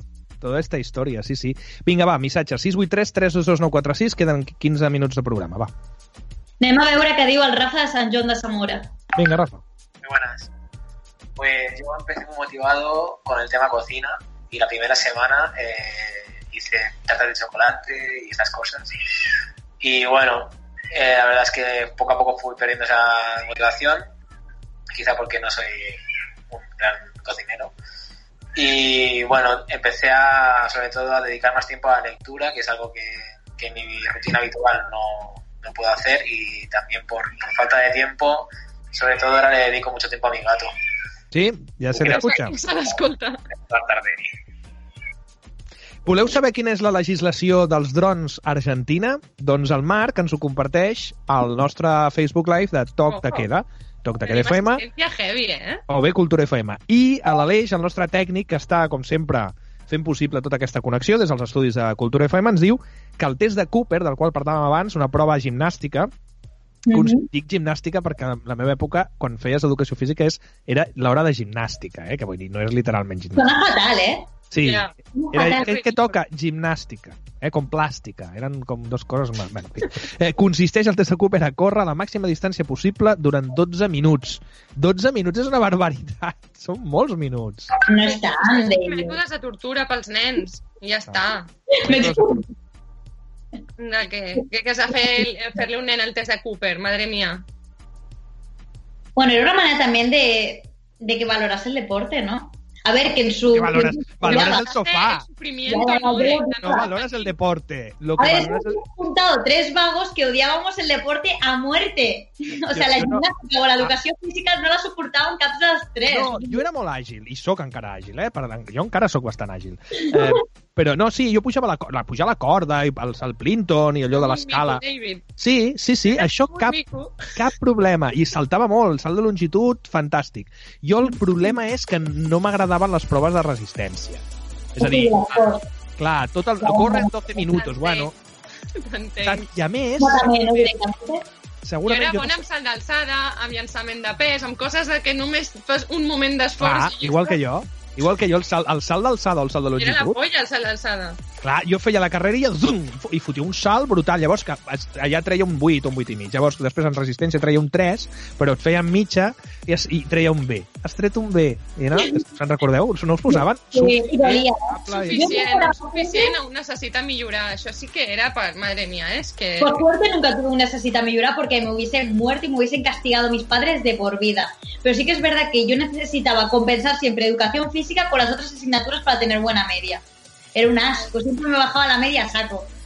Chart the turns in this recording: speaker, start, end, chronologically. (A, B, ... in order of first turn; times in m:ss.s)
0:00.4-0:05.7 A
0:06.6-0:08.9 B
0:09.2-0:09.6 A
0:10.0-0:10.5 C
0:11.4-0:18.9 C
0:19.8-0:24.0 C
0:24.9-0:26.0 C
0:26.5-0:27.7 C
0:28.6-0:40.7 C
0:41.3-0:42.6 A
0:42.0-0:43.4 D
0:43.7-0:44.0 A
0:46.0-0:54.8 A
0:53.1-0:53.5 D
0:54.2-0:55.8 D
0:55.9-1:06.1 A
1:06.9-1:07.3 B
1:06.9-1:13.5 A
1:13.4-1:14.3 B
1:14.5-1:27.7 A
1:14.6-1:14.9 D
1:15.2-1:15.7 B
1:15.5-1:16.2 D
1:27.8-1:29.2 B
1:28.0-1:31.5 D
1:31.7-1:32.5 B
1:31.8-1:32.4 A
1:33.8-1:37.4 D
1:39.2-1:44.6 B
1:43.5-1:45.3 A
1:44.3-1:47.3 D
1:45.7-1:46.8 B
1:46.6-1:48.8 A
1:48.2-1:56.6 B
1:52.7-1:53.3 A
1:56.1-2:04.8 A
2:04.1-2:05.2 D
2:05.4-2:14.2 A
2:06.1-2:07.3 D
2:14.7-2:18.1 A
2:14.8-2:15.6 B
2:16.6-2:17.1 B
2:17.4-2:18.1 D
2:18.8-2:19.5 D
2:19.2-2:20.4 A
2:20.0-2:21.3 B
2:21.6-2:22.4 A
2:21.9-2:27.4 D
2:26.6-2:30.2 A
2:29.8-2:31.2 D
2:31.4-2:45.4 A
2:43.3-2:44.6 B
2:44.8-2:49.8 D
2:45.1-2:46.4 B
2:49.6-3:00.0 B
3:00.6-3:02.7 B